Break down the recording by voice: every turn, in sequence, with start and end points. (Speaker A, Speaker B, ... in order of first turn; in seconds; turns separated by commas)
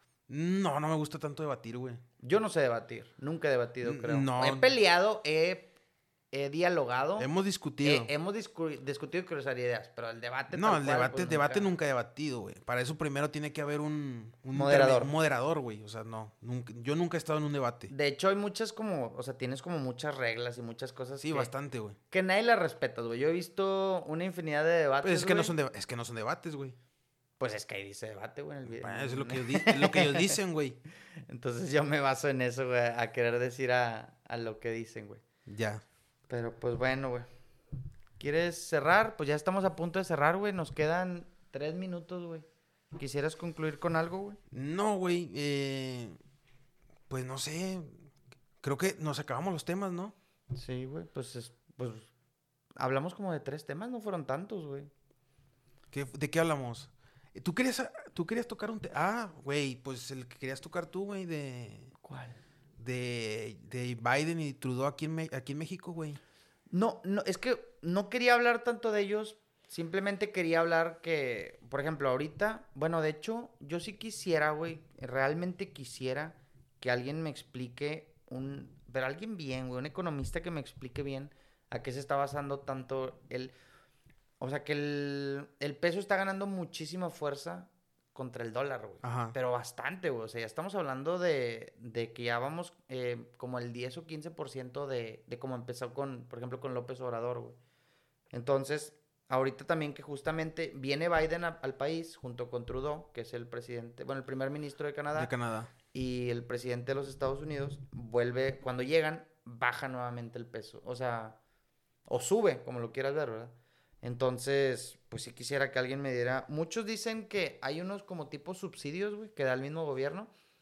Speaker A: 0.3-2.0, Speaker B: 2.2-5.7, Speaker A: 3.8-4.7, Speaker B: 6.3-7.3, Speaker A: 7.2-8.1, Speaker B: 7.8-11.7, Speaker A: 10.5-17.9, Speaker B: 14.5-15.1, Speaker B: 17.9-21.5, Speaker A: 21.2-22.0, Speaker B: 22.1-25.5, Speaker A: 25.0-26.8, Speaker B: 27.4-30.4, Speaker A: 28.6-30.8, Speaker B: 31.3-35.2, Speaker A: 35.5-35.8, Speaker B: 36.3-37.3, Speaker B: 38.2-44.4, Speaker A: 44.5-46.1, Speaker A: 47.1-48.0, Speaker A: 48.6-50.1, Speaker B: 50.5-52.1, Speaker B: 52.8-54.9, Speaker A: 55.9-61.9, Speaker B: 62.0-62.4, Speaker A: 62.8-66.2, Speaker B: 66.7-83.5, Speaker B: 84.4-97.6, Speaker A: 89.0-89.3, Speaker B: 98.3-105.3, Speaker A: 105.1-105.7, Speaker B: 105.9-111.4, Speaker B: 112.1-120.3